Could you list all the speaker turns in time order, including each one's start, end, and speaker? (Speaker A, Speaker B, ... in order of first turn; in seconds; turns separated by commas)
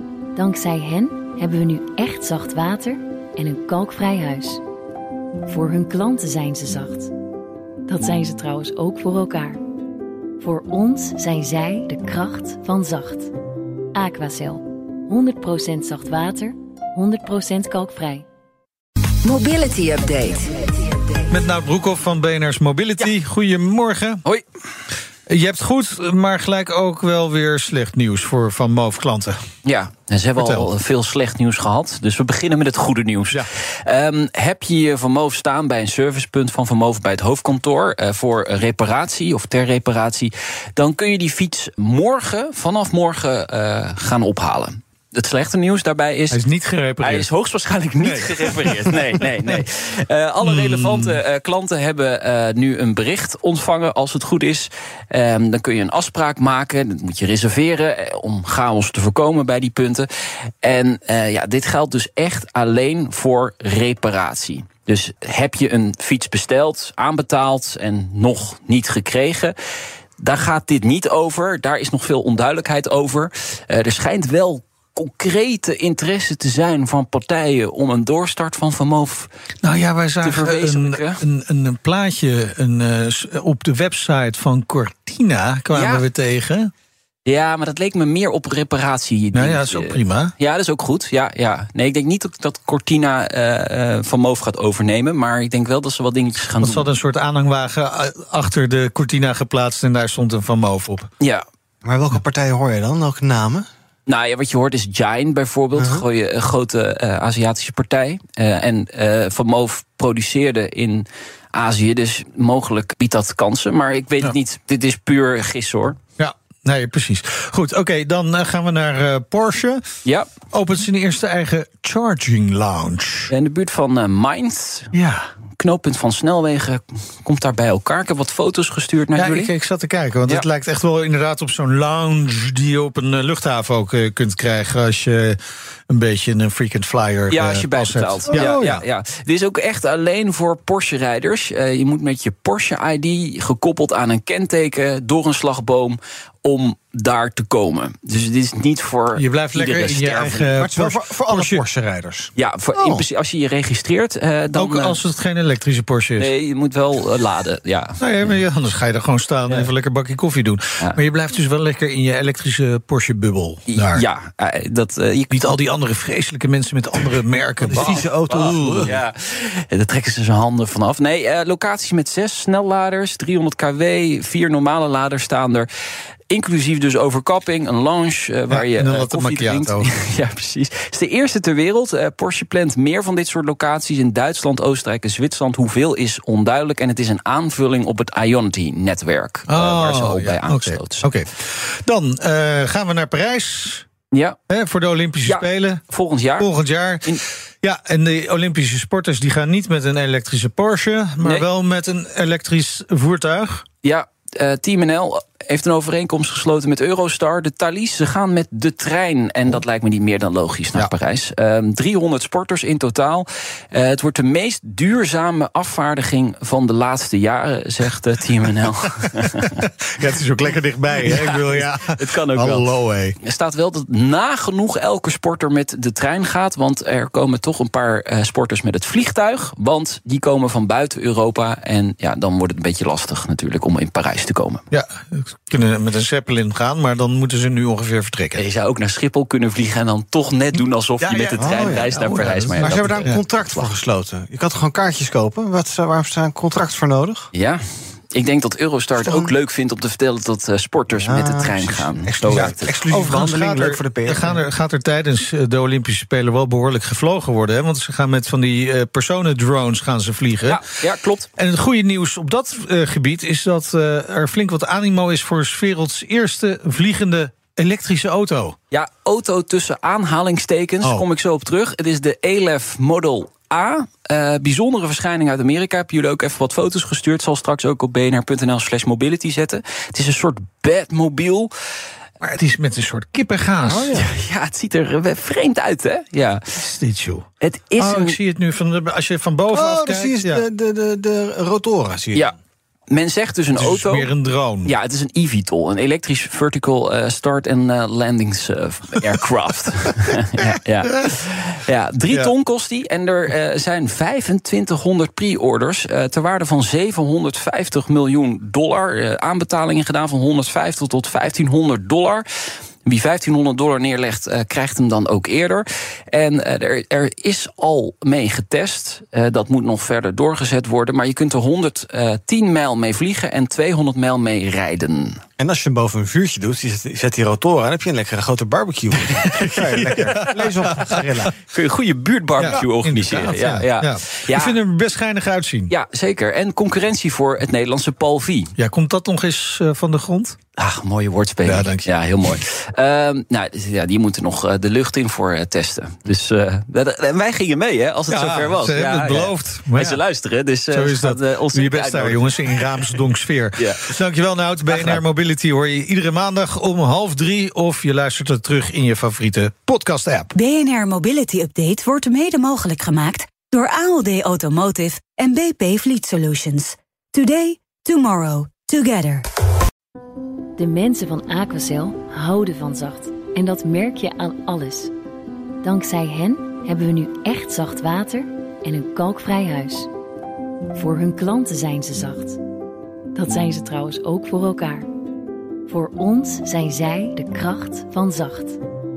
Speaker A: 0.3-4.6, Speaker A: 5.5-7.1, Speaker A: 7.9-9.6, Speaker A: 10.4-13.3, Speaker A: 13.9-18.3, Speaker B: 19.2-20.7, Speaker C: 19.3-20.3, Speaker D: 21.3-24.2, Speaker D: 25.3-29.4, Speaker C: 29.6-46.4, Speaker D: 30.4-30.7, Speaker D: 46.3-47.3, Speaker C: 47.0-69.5, Speaker D: 48.0-49.2, Speaker D: 50.4-51.2, Speaker C: 70.2-79.3, Speaker D: 79.6-86.7, Speaker C: 80.2-81.2, Speaker C: 85.7-86.0, Speaker C: 87.3-96.9, Speaker D: 89.3-90.3, Speaker D: 96.6-101.1, Speaker E: 101.8-103.7, Speaker C: 104.1-116.0, Speaker E: 105.8-106.0, Speaker D: 116.2-119.8, Speaker D: 120.5-123.3, Speaker C: 123.3-124.9, Speaker D: 124.9-125.3, Speaker C: 125.6-129.5, Speaker D: 129.2-138.7, Speaker C: 137.3-150.6, Speaker E: 138.3-138.8, Speaker D: 149.2-151.6, Speaker E: 150.6-152.3, Speaker C: 152.4-155.0, Speaker D: 152.8-153.0, Speaker D: 154.6-156.3, Speaker C: 156.2-158.3, Speaker D: 158.0-164.1, Speaker C: 163.7-165.5, Speaker D: 165.3-168.9, Speaker E: 167.6-169.0, Speaker C: 167.8-175.7, Speaker C: 176.3-191.1, Speaker D: 178.5-179.9, Speaker D: 189.5-193.9, Speaker C: 194.1-194.4, Speaker D: 194.5-195.8, Speaker C: 195.3-196.5, Speaker D: 196.4-203.7, Speaker C: 203.8-219.7, Speaker D: 219.3-223.2, Speaker C: 221.0-222.7, Speaker C: 223.2-234.6, Speaker D: 234.7-238.4, Speaker C: 238.3-243.7, Speaker D: 241.0-243.2, Speaker E: 241.4-247.3, Speaker C: 247.3-247.6, Speaker C: 248.1-252.8, Speaker E: 249.0-249.3, Speaker E: 250.9-254.4, Speaker D: 252.3-260.6, Speaker C: 260.4-261.3, Speaker D: 261.4-268.6, Speaker C: 268.7-281.5, Speaker D: 282.2-284.1, Speaker C: 283.7-286.4, Speaker D: 286.6-287.3, Speaker C: 287.4-288.2, Speaker D: 287.8-290.4, Speaker E: 289.5-292.3, Speaker C: 292.9-294.1, Speaker D: 293.6-294.7, Speaker C: 294.6-312.2, Speaker C: 312.9-325.2, Speaker E: 325.4-331.4, Speaker D: 329.4-331.0, Speaker C: 331.5-334.6, Speaker D: 332.4-335.7, Speaker C: 335.7-338.5, Speaker D: 338.6-340.4, Speaker C: 340.6-353.0, Speaker D: 341.4-341.9, Speaker D: 348.1-350.0, Speaker D: 350.7-360.3, Speaker C: 353.6-353.9, Speaker C: 354.7-355.0, Speaker B: 360.4-369.2, Speaker A: 370.6-374.9, Speaker A: 375.6-379.9, Speaker A: 380.8-382.4, Speaker A: 383.1-384.9, Speaker A: 385.7-388.6